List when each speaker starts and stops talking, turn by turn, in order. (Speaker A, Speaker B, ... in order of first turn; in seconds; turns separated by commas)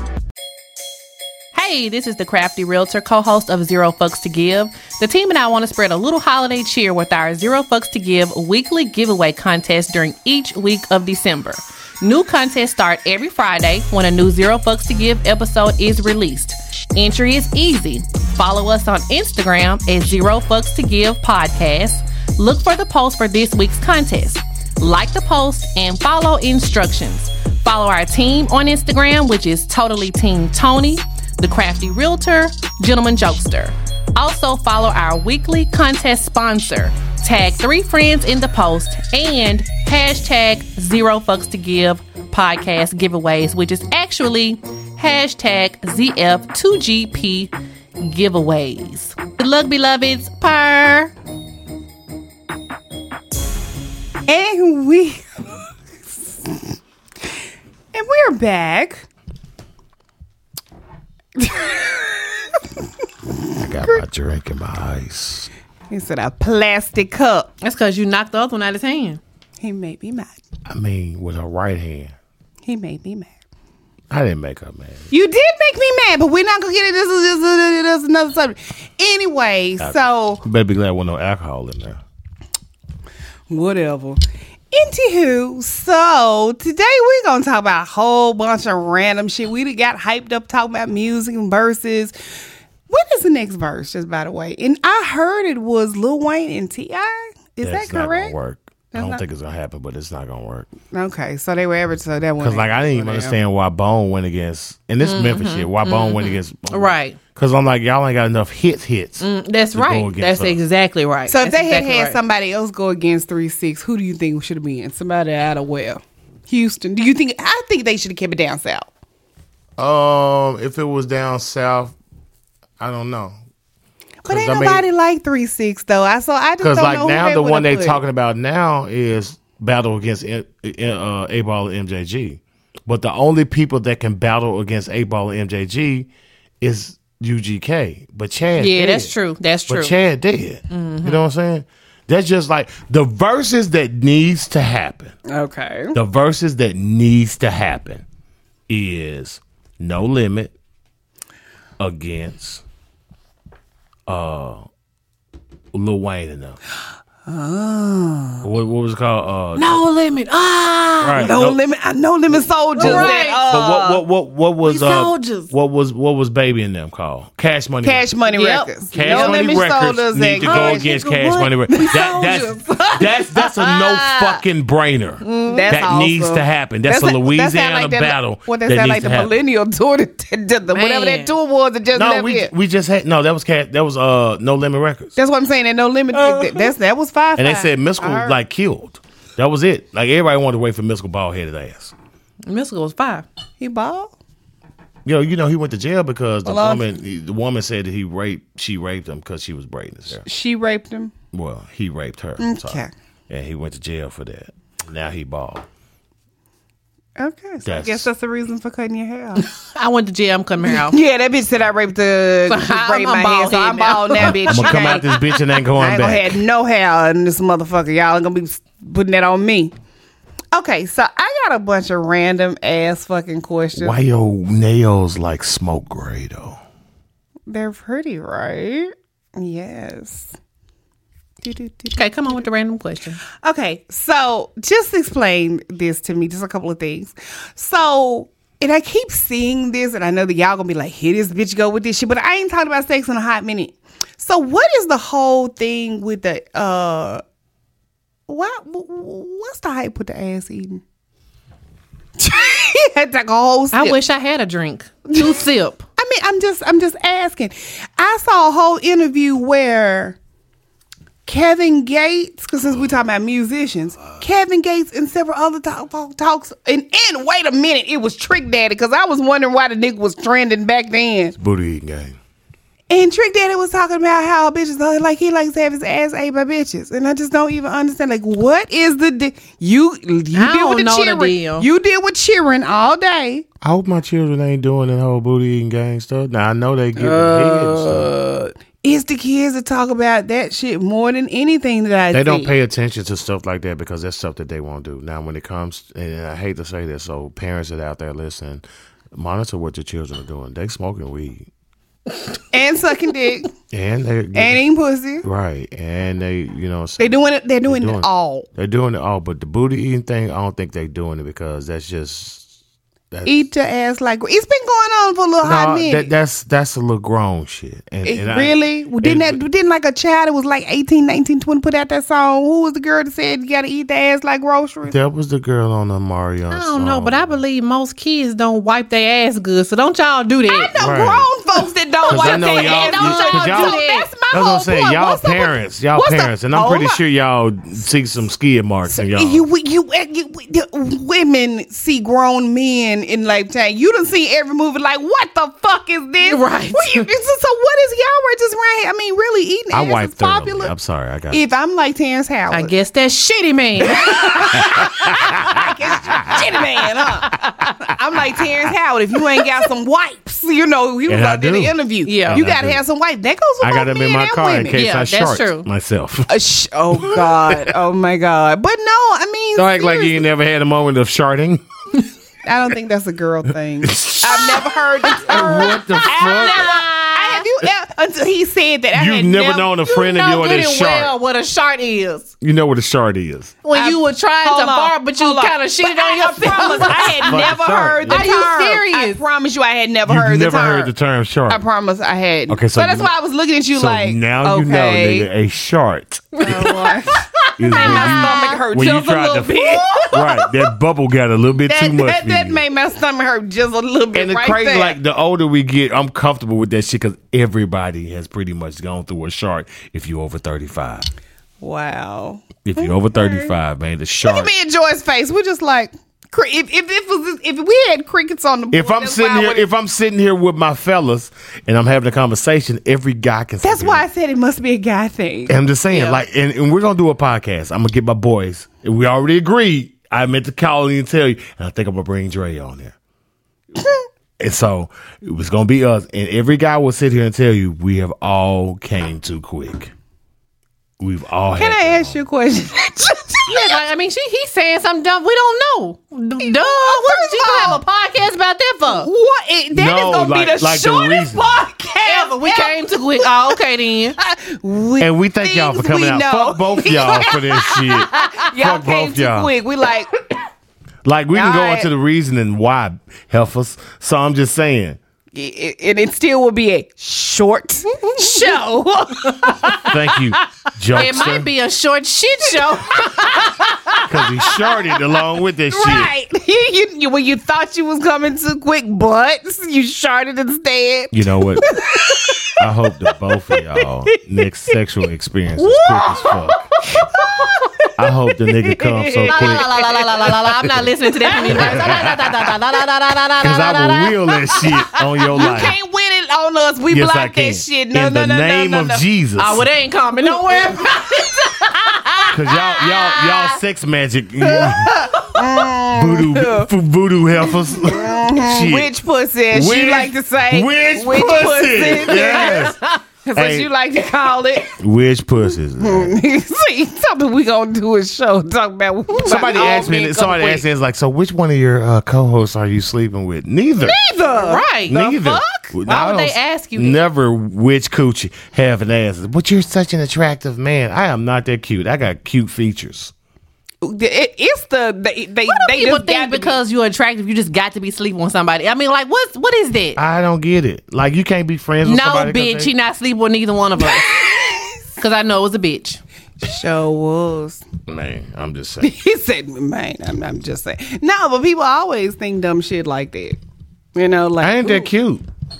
Speaker A: 1.5-51.1, Speaker B: 54.3-55.4, Speaker B: 56.1-56.6, Speaker B: 57.9-59.0, Speaker B: 61.4-62.6, Speaker C: 63.5-65.5, Speaker B: 65.9-67.5, Speaker A: 67.6-69.2, Speaker B: 69.6-70.3, Speaker C: 70.7-72.1, Speaker B: 72.6-73.3, Speaker C: 74.1-75.1, Speaker B: 75.1-80.4, Speaker C: 79.8-82.0, Speaker B: 83.5-84.2, Speaker B: 84.7-92.1, Speaker B: 92.9-98.3, Speaker C: 97.6-100.7, Speaker B: 98.9-99.2, Speaker B: 100.9-103.4, Speaker C: 102.4-110.6, Speaker A: 105.0-107.2, Speaker A: 109.2-112.2, Speaker B: 111.3-118.9, Speaker C: 119.8-121.9, Speaker C: 122.8-123.4, Speaker B: 124.2-128.0, Speaker C: 124.2-124.8, Speaker C: 126.6-136.1, Speaker C: 136.6-139.1, Speaker A: 138.6-139.9, Speaker C: 139.7-145.1, Speaker A: 140.7-141.2, Speaker B: 145.3-145.9, Speaker C: 145.9-148.0, Speaker C: 148.7-150.5, Speaker C: 151.8-152.6, Speaker C: 154.1-154.7, Speaker C: 155.7-156.6, Speaker B: 157.3-158.4, Speaker C: 158.4-159.8, Speaker A: 159.6-161.3, Speaker C: 161.0-161.6, Speaker B: 161.2-164.0, Speaker A: 162.8-163.4, Speaker C: 162.8-168.1, Speaker A: 164.6-165.5, Speaker B: 167.8-171.0, Speaker A: 168.3-169.4, Speaker C: 168.9-179.3, Speaker A: 170.4-172.4, Speaker B: 171.7-174.3, Speaker A: 175.2-175.8, Speaker B: 175.4-182.5, Speaker A: 180.7-181.3, Speaker C: 181.9-185.1, Speaker B: 185.2-188.4, Speaker A: 186.1-186.7, Speaker C: 187.4-191.9, Speaker A: 192.4-193.2, Speaker B: 193.6-194.1, Speaker C: 195.0-200.2, Speaker B: 196.4-196.9, Speaker B: 200.2-201.1, Speaker C: 201.3-205.7, Speaker B: 202.4-202.9, Speaker B: 207.2-209.5, Speaker C: 207.6-208.1, Speaker A: 209.4-211.0, Speaker B: 210.6-215.1, Speaker A: 212.5-215.2, Speaker C: 214.2-216.4, Speaker B: 215.7-219.7, Speaker B: 220.5-224.0, Speaker C: 223.8-226.6, Speaker B: 227.5-230.3, Speaker B: 231.4-232.3, Speaker A: 231.9-233.2, Speaker B: 233.4-247.2, Speaker B: 248.3-250.8, Speaker B: 252.2-254.0, Speaker A: 253.7-255.8, Speaker B: 255.1-255.4, Speaker B: 256.0-260.2, Speaker B: 261.2-271.3, Speaker C: 271.4-272.2, Speaker B: 272.9-283.4, Speaker A: 280.3-281.7, Speaker C: 283.6-288.2, Speaker A: 287.0-288.5, Speaker B: 288.8-292.5, Speaker C: 292.1-301.5, Speaker B: 302.5-303.5, Speaker C: 303.7-304.6, Speaker B: 304.3-305.2, Speaker C: 305.2-312.5, Speaker B: 307.0-308.5, Speaker C: 313.1-313.5, Speaker B: 313.2-316.1, Speaker C: 315.4-319.4, Speaker B: 318.0-324.9, Speaker C: 324.9-327.4, Speaker A: 326.5-330.7, Speaker B: 330.4-337.0, Speaker C: 330.8-331.3, Speaker A: 332.0-334.1, Speaker C: 332.1-339.4, Speaker B: 338.9-350.7, Speaker A: 346.2-347.1, Speaker C: 349.7-351.4, Speaker B: 351.3-352.7, Speaker A: 352.5-354.9, Speaker B: 353.9-364.8, Speaker C: 354.5-356.6, Speaker C: 357.4-357.8, Speaker C: 361.1-361.8, Speaker A: 362.0-362.4, Speaker C: 362.3-362.8, Speaker C: 363.6-366.3, Speaker A: 364.7-365.7, Speaker B: 366.3-370.2, Speaker C: 367.0-367.7, Speaker C: 369.6-371.6, Speaker B: 372.4-379.8, Speaker C: 373.8-376.7, Speaker A: 375.3-377.4, Speaker C: 378.9-381.1, Speaker A: 379.9-382.3, Speaker C: 382.4-383.5, Speaker A: 383.6-387.5, Speaker B: 383.7-390.9, Speaker C: 386.8-388.3, Speaker A: 388.1-389.2, Speaker C: 390.1-391.6, Speaker B: 391.5-395.3, Speaker C: 392.5-393.1, Speaker C: 393.7-396.7, Speaker A: 396.4-398.6, Speaker B: 396.4-400.5, Speaker C: 397.6-402.6, Speaker B: 401.7-405.0, Speaker C: 404.1-411.1, Speaker B: 411.6-413.5, Speaker C: 412.6-414.5, Speaker B: 414.2-419.6, Speaker C: 418.7-424.0, Speaker B: 423.6-425.6, Speaker C: 425.5-432.9, Speaker A: 425.9-426.2, Speaker B: 433.8-434.1, Speaker C: 434.4-439.9, Speaker C: 441.0-442.2, Speaker B: 441.6-443.8, Speaker A: 443.5-449.1, Speaker B: 446.4-447.8, Speaker B: 448.9-453.6, Speaker C: 449.7-451.6, Speaker A: 452.0-454.1, Speaker B: 454.2-460.1, Speaker C: 455.0-459.5, Speaker C: 461.0-465.0, Speaker B: 461.3-461.9, Speaker B: 465.3-469.9, Speaker A: 468.0-469.9, Speaker C: 469.8-471.5, Speaker A: 470.9-474.0, Speaker B: 472.9-475.1, Speaker C: 474.1-476.1, Speaker B: 475.7-482.6, Speaker C: 481.1-481.8, Speaker C: 482.6-486.7, Speaker B: 483.5-484.2, Speaker A: 485.6-486.4, Speaker B: 486.9-487.9, Speaker A: 487.2-487.6, Speaker C: 488.0-489.7, Speaker B: 488.5-490.3, Speaker A: 489.3-495.5, Speaker C: 490.3-490.9, Speaker B: 491.2-492.1, Speaker C: 491.4-492.6, Speaker C: 493.4-495.8, Speaker B: 495.3-499.0, Speaker C: 496.9-499.7, Speaker A: 499.4-503.6, Speaker B: 500.5-501.7, Speaker C: 502.3-505.2, Speaker A: 504.6-505.3, Speaker B: 504.6-506.7, Speaker C: 505.9-508.9, Speaker B: 507.7-514.8, Speaker C: 509.5-512.8, Speaker A: 512.2-513.0, Speaker C: 513.3-513.7, Speaker C: 514.7-516.2, Speaker B: 515.8-520.6, Speaker C: 519.2-524.0, Speaker B: 523.8-525.7, Speaker A: 524.3-527.0, Speaker C: 524.9-533.1, Speaker B: 533.8-536.6, Speaker A: 535.5-540.0, Speaker C: 540.0-542.7, Speaker A: 541.8-544.2, Speaker B: 544.1-544.6, Speaker A: 545.0-546.0, Speaker B: 546.4-547.6, Speaker C: 547.9-548.9, Speaker B: 548.8-553.4, Speaker B: 553.9-554.9, Speaker C: 554.4-555.2